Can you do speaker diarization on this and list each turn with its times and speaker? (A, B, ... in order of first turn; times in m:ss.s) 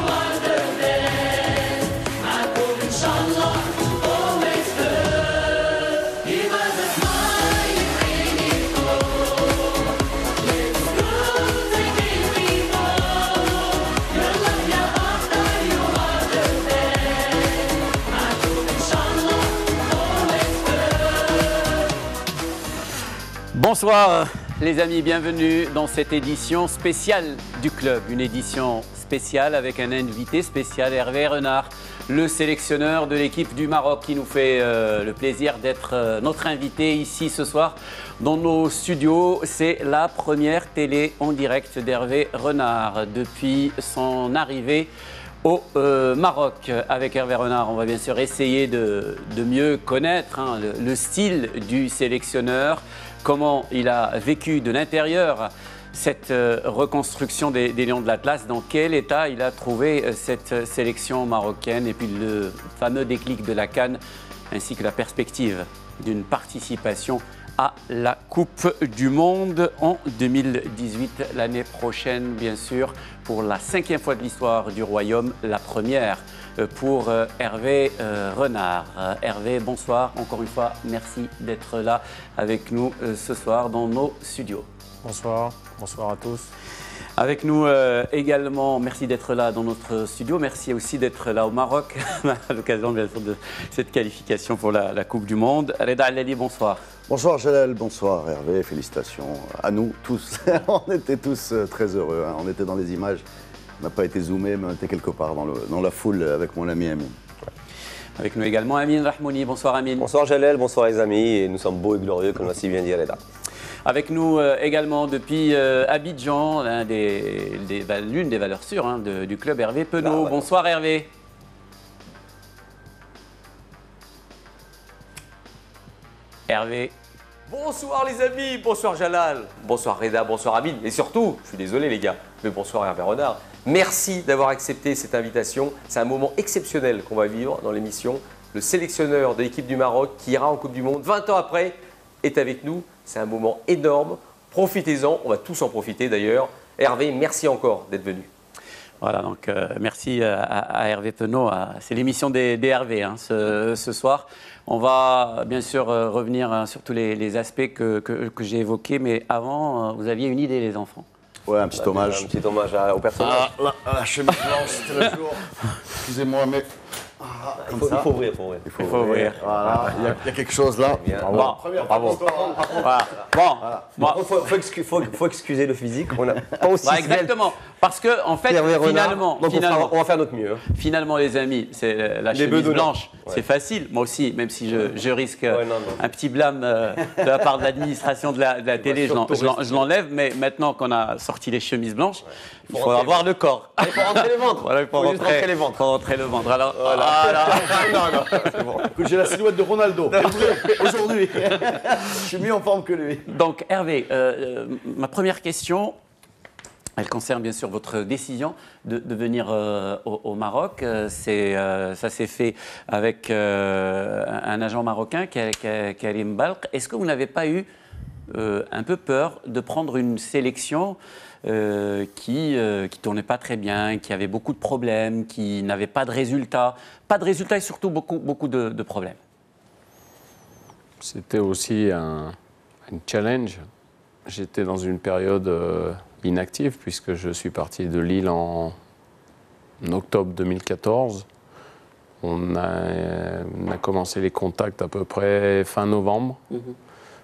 0:23.5-0:44.9 A
0:45.4-1:04.0 A
1:04.5-1:24.7 A
1:25.0-1:26.5 B
1:27.2-1:36.8 A
1:37.1-1:43.2 C
1:43.8-1:47.2 C
1:48.2-1:50.1 A
1:50.0-1:53.2 D
1:53.8-2:01.1 A
2:00.0-2:00.4 D
2:06.5-2:06.9 A
2:07.5-2:28.3 E
2:29.0-2:41.1 A
2:41.5-2:42.3 C
2:41.7-2:43.5 D
2:43.2-2:46.7 C
2:47.2-2:48.1 C
2:47.6-2:49.2 D
2:48.6-2:53.9 C
2:48.8-2:50.1 A
2:51.0-2:53.2 D
2:51.2-2:52.1 B
2:51.3-2:52.1 A
2:52.8-2:54.2 A
2:54.0-2:57.3 D
2:56.8-3:00.0 A
2:58.5-3:00.6 D
3:00.7-3:18.5 A
3:02.3-3:03.4 D
3:05.5-3:06.0 D
3:08.8-3:09.6 D
3:12.7-3:13.3 D
3:13.8-3:15.8 D
3:16.8-3:18.9 D
3:18.9-3:23.3 C
3:20.2-3:20.8 D
3:23.3-3:26.0 A
3:27.0-3:37.7 A
3:38.3-3:49.2 A
3:51.0-3:52.4 B
3:52.9-3:53.6 B
3:54.3-3:58.8 B
3:59.8-4:01.2 B
4:02.2-4:06.4 B